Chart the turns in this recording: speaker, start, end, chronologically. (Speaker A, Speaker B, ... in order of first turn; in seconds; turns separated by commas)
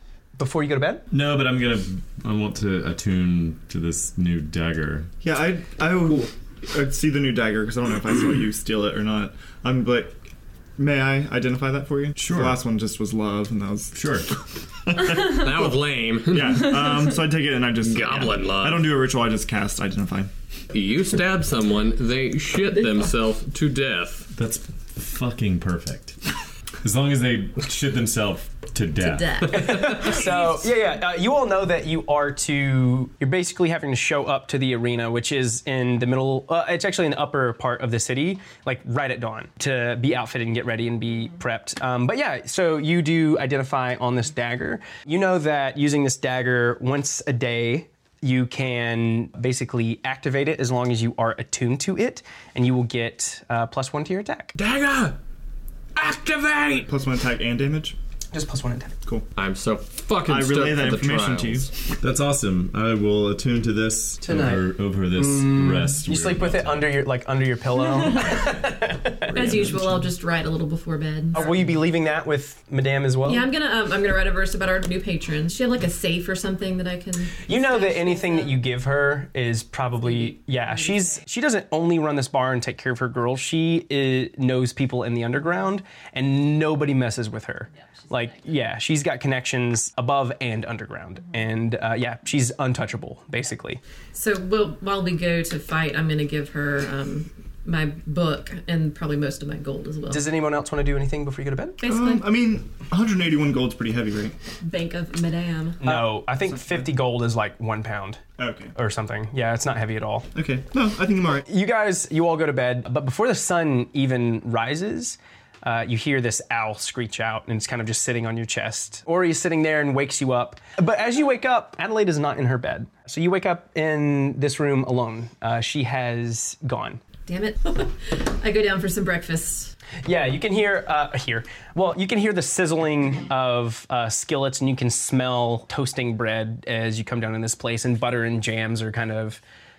Speaker A: 0.4-1.1, Speaker B: 1.1-5.1, Speaker C: 5.2-10.2, Speaker C: 10.8-14.0, Speaker B: 12.2-12.6, Speaker B: 13.9-14.3, Speaker C: 14.9-20.3, Speaker D: 15.1-16.9, Speaker D: 17.8-18.9, Speaker D: 20.7-24.3, Speaker B: 24.3-26.2, Speaker B: 26.8-29.6, Speaker E: 29.0-30.6, Speaker A: 29.5-54.5, Speaker D: 54.6-55.2, Speaker D: 56.0-56.9, Speaker C: 56.9-58.0, Speaker A: 58.3-59.0, Speaker D: 59.4-61.7, Speaker C: 60.2-62.0, Speaker B: 62.0-66.9, Speaker A: 64.2-69.4, Speaker E: 69.3-71.5, Speaker C: 69.3-69.9, Speaker A: 71.3-73.5, Speaker E: 73.2-78.6, Speaker A: 77.5-93.8, Speaker E: 94.1-100.2, Speaker A: 100.1-101.8, Speaker E: 101.8-102.3, Speaker C: 101.8-104.4, Speaker E: 104.6-105.8, Speaker A: 105.8-108.2, Speaker C: 105.8-106.9, Speaker C: 108.4-108.7, Speaker A: 108.8-110.3, Speaker C: 110.3-111.5, Speaker A: 111.5-127.0, Speaker E: 127.3-129.7, Speaker A: 130.1-139.4